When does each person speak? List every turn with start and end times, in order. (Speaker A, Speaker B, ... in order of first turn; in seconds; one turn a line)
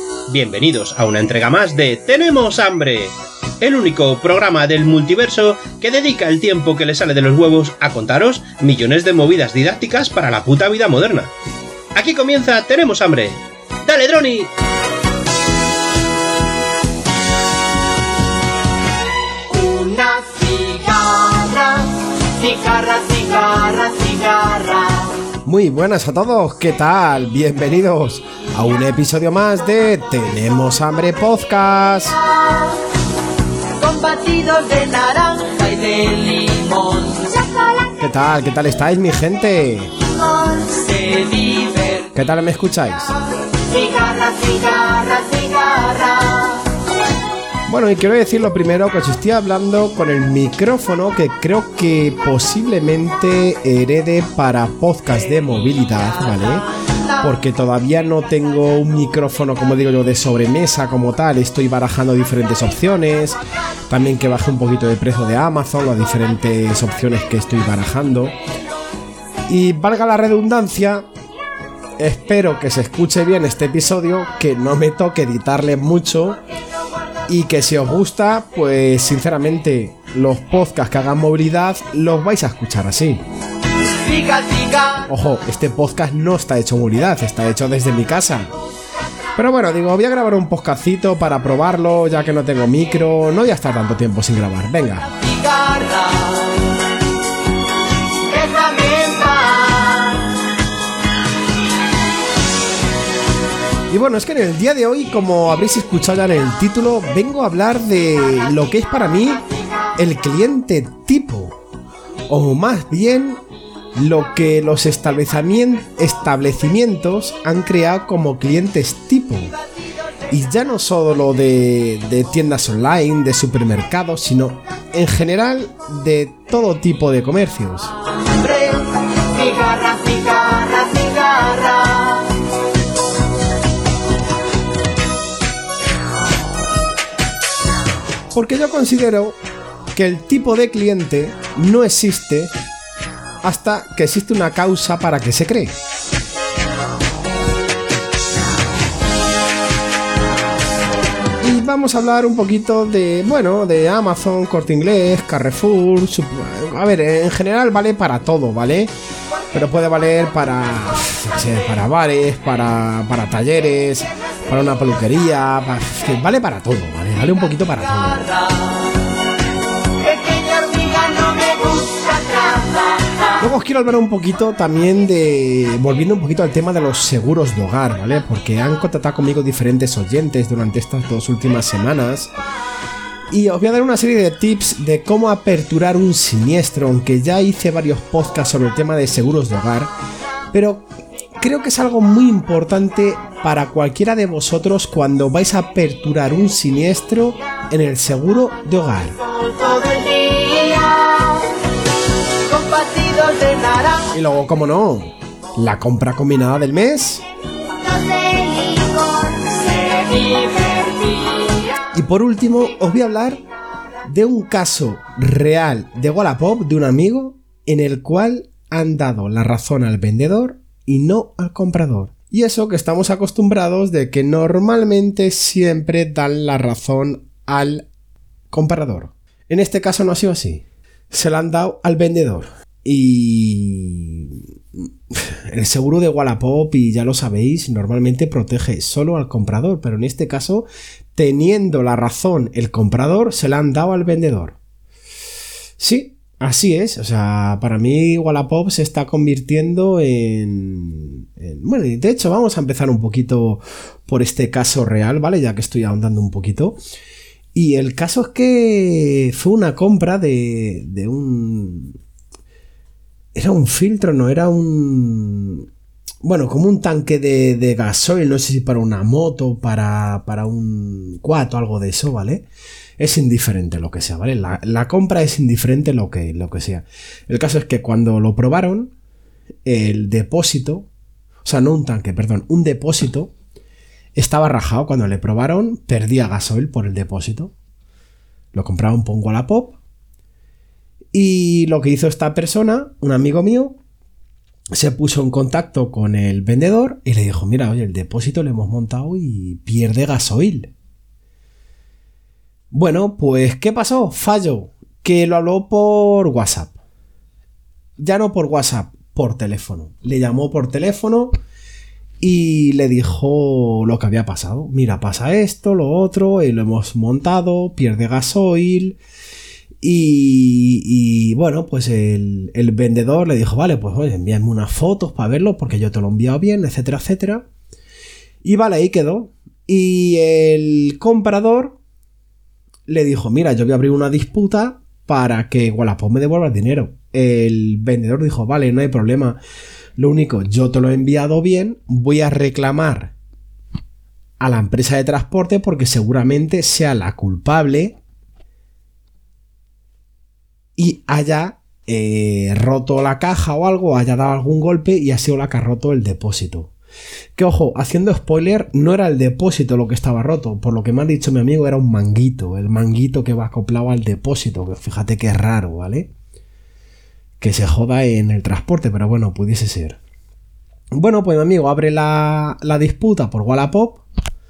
Speaker A: 0.3-11.3
Speaker A: 11.9-14.5
Speaker B: 19.5-25.2
Speaker C: 25.4-32.1
Speaker B: 32.2-32.8
Speaker B: 33.8-37.8
Speaker C: 38.0-39.9
Speaker B: 40.0-42.1
Speaker C: 42.1-43.1
Speaker B: 43.5-46.7
Speaker C: 47.7-56.7
Speaker C: 57.2-63.4
Speaker C: 63.9-68.3
Speaker C: 69.5-71.0
Speaker C: 72.0-76.4
Speaker C: 77.3-83.2
Speaker B: 83.9-85.0
Speaker C: 85.1-88.5
Speaker C: 89.3-95.1
Speaker B: 95.1-96.7
Speaker B: 98.2-100.3
Speaker C: 103.9-109.4
Speaker C: 110.0-111.6
Speaker C: 112.3-113.4
Speaker C: 114.0-119.5
Speaker C: 120.3-127.9
Speaker B: 128.3-132.3
Speaker C: 138.3-139.4
Speaker C: 139.9-142.5
Speaker C: 143.4-145.8
Speaker C: 151.4-158.9
Speaker C: 159.5-168.3
Speaker B: 170.0-173.3
Speaker C: 173.4-182.3
Speaker C: 183.3-189.9
Speaker C: 190.5-190.9
Speaker C: 191.4-199.2
Speaker B: 199.2-201.5
Speaker B: 202.4-204.1
Speaker C: 204.1-207.2
Speaker B: 207.8-211.8
Speaker C: 211.9-213.4
Speaker C: 214.1-227.9
Speaker C: 228.5-244.6
Speaker C: 245.8-256.8
Speaker C: 257.5-262.0
Speaker C: 263.3-265.7
Speaker C: 266.2-272.4
Speaker C: 273.0-278.9
Speaker C: 279.6-280.9
Speaker C: 281.4-283.3
Speaker C: 284.1-287.5
Speaker C: 288.5-289.8
Speaker C: 291.1-293.8
Speaker C: 294.7-300.7
Speaker C: 302.7-306.8
Speaker C: 308.0-311.3
Speaker C: 312.2-319.0
Speaker C: 319.8-327.4
Speaker C: 328.4-331.8
Speaker C: 332.9-339.4
Speaker C: 340.0-343.1
Speaker C: 344.4-348.0
Speaker C: 350.8-356.7
Speaker C: 357.4-366.1
Speaker C: 367.4-370.0
Speaker C: 370.9-374.0